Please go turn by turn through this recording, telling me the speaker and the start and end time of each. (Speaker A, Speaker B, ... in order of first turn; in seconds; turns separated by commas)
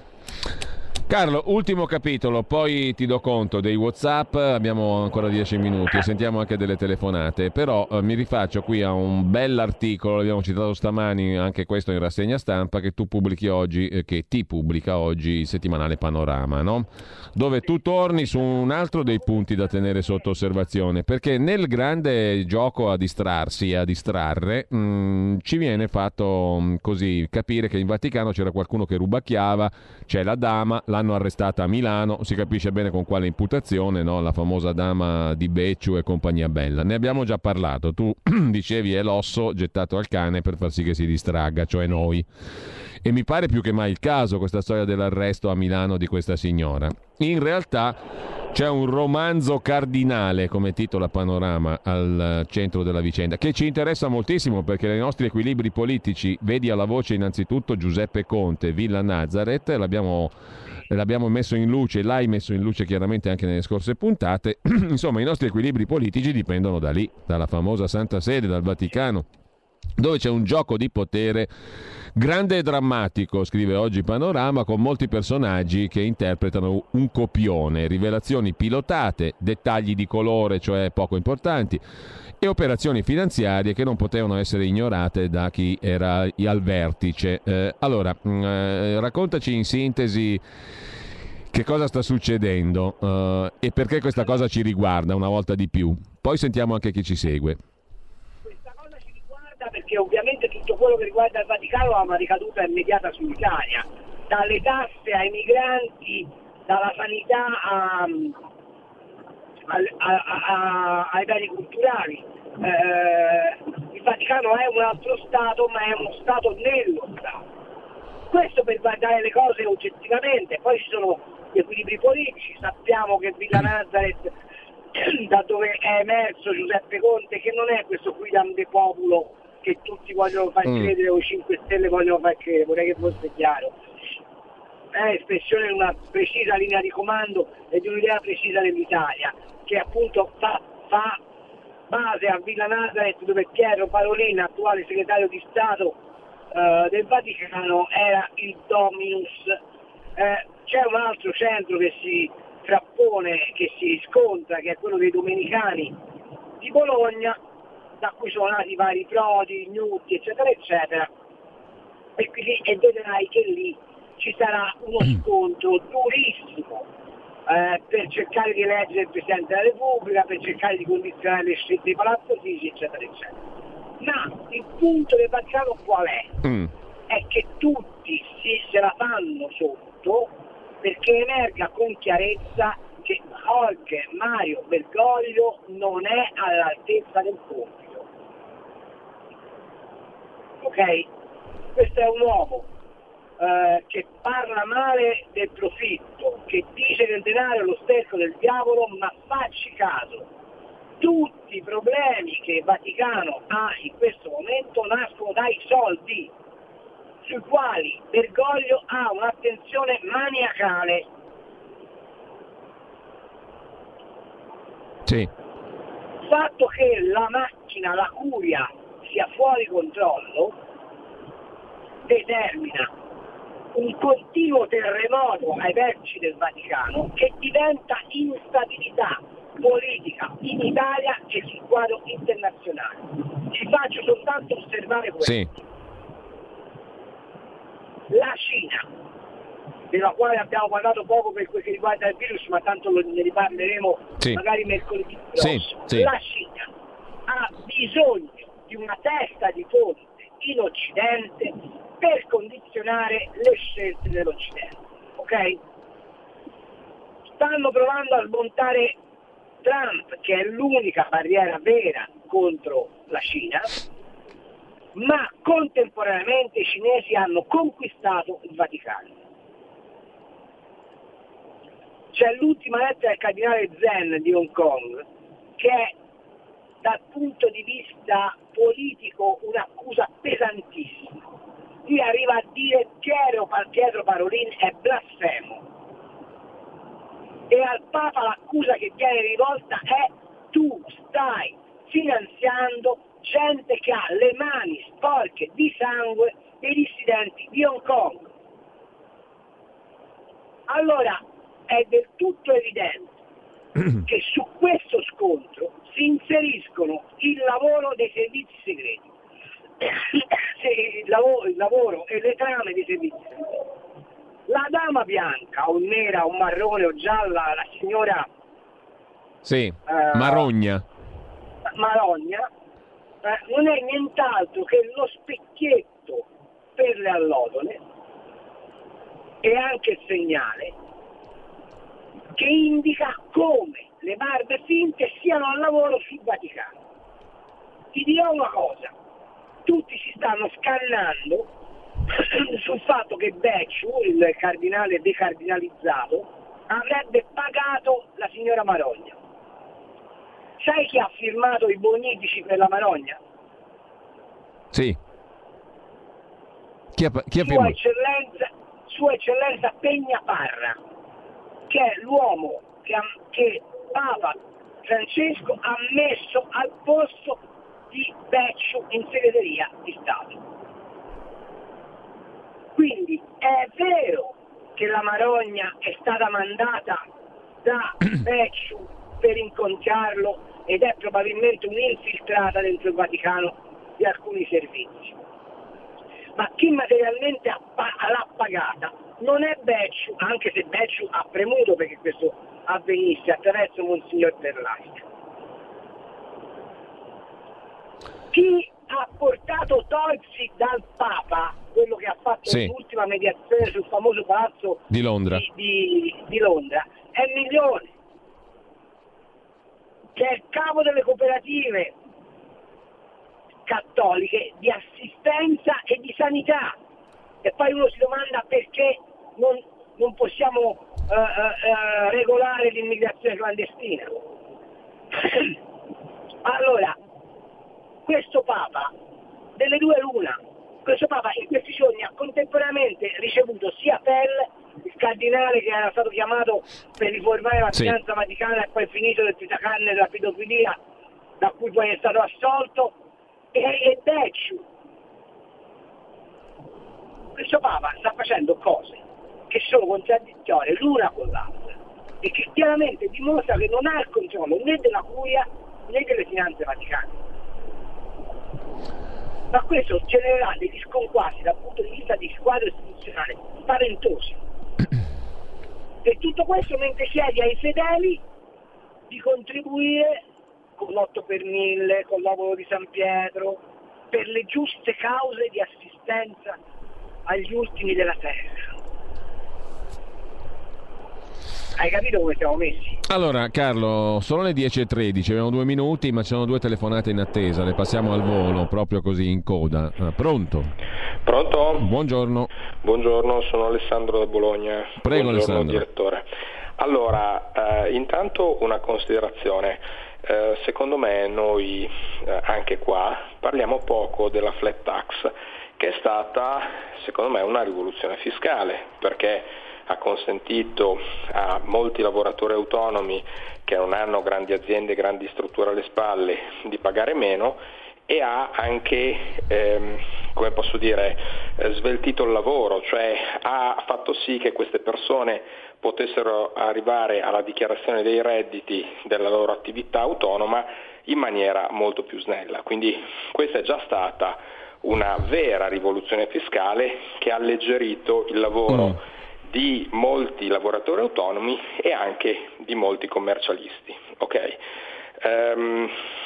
Speaker A: 1.1-42.3, Speaker A: 43.0-48.0, Speaker A: 48.5-60.3, Speaker A: 60.9-69.3, Speaker A: 70.0-71.5, Speaker A: 72.2-81.8, Speaker A: 82.4-90.4, Speaker A: 91.5-97.6, Speaker B: 98.5-108.4, Speaker B: 109.7-117.4, Speaker B: 118.3-124.3, Speaker B: 124.9-133.8, Speaker B: 134.9-141.2, Speaker B: 141.9-146.0, Speaker B: 146.5-149.6, Speaker B: 150.2-156.0, Speaker B: 156.6-157.4, Speaker B: 158.0-161.1, Speaker B: 162.2-166.9, Speaker B: 167.5-173.4, Speaker B: 174.0-176.4, Speaker A: 176.4-176.7, Speaker B: 177.1-188.1, Speaker B: 190.6-191.1, Speaker B: 191.8-192.7, Speaker B: 193.4-200.3, Speaker B: 201.0-206.3, Speaker B: 207.2-211.1, Speaker B: 216.2-220.6, Speaker B: 222.1-222.9, Speaker B: 223.7-235.4, Speaker A: 235.2-235.5, Speaker B: 238.1-238.9, Speaker B: 239.9-246.7, Speaker A: 245.4-246.1, Speaker B: 247.3-255.6, Speaker B: 257.4-259.0, Speaker B: 259.6-263.7, Speaker B: 264.9-269.1, Speaker B: 272.1-275.1, Speaker B: 275.6-275.9, Speaker B: 276.8-281.3, Speaker B: 281.9-285.6, Speaker B: 287.5-298.3, Speaker B: 300.7-303.2, Speaker B: 304.0-309.1, Speaker B: 309.8-313.7, Speaker B: 314.5-318.3, Speaker A: 319.4-320.9, Speaker B: 319.9-320.5, Speaker B: 321.7-322.5, Speaker B: 323.2-327.8, Speaker B: 329.4-330.8, Speaker B: 332.3-336.7, Speaker B: 337.9-338.9, Speaker B: 339.7-341.5, Speaker B: 342.1-349.2, Speaker B: 350.6-353.2, Speaker A: 354.7-355.0, Speaker A: 356.9-357.8, Speaker B: 357.4-360.8, Speaker B: 361.7-367.4, Speaker B: 367.9-370.4, Speaker B: 372.8-377.0, Speaker B: 377.6-385.2, Speaker B: 386.4-395.1, Speaker B: 398.3-407.9, Speaker A: 402.5-402.7, Speaker A: 404.9-405.4, Speaker B: 410.1-411.9, Speaker B: 413.7-416.8, Speaker B: 417.4-424.2, Speaker B: 425.2-425.5, Speaker B: 426.4-427.0, Speaker B: 428.1-428.9, Speaker B: 429.6-440.8, Speaker B: 441.4-443.0, Speaker B: 443.5-444.6, Speaker B: 447.4-451.7, Speaker B: 452.2-457.2, Speaker B: 459.5-464.4, Speaker B: 466.0-468.2, Speaker B: 469.1-470.2, Speaker B: 470.8-476.6, Speaker B: 477.3-478.6, Speaker B: 481.8-483.0, Speaker A: 483.1-490.7, Speaker C: 491.2-491.9, Speaker A: 491.8-492.5, Speaker C: 492.8-496.2, Speaker A: 495.0-495.8, Speaker C: 496.8-544.6, Speaker A: 538.7-539.0, Speaker C: 545.2-545.9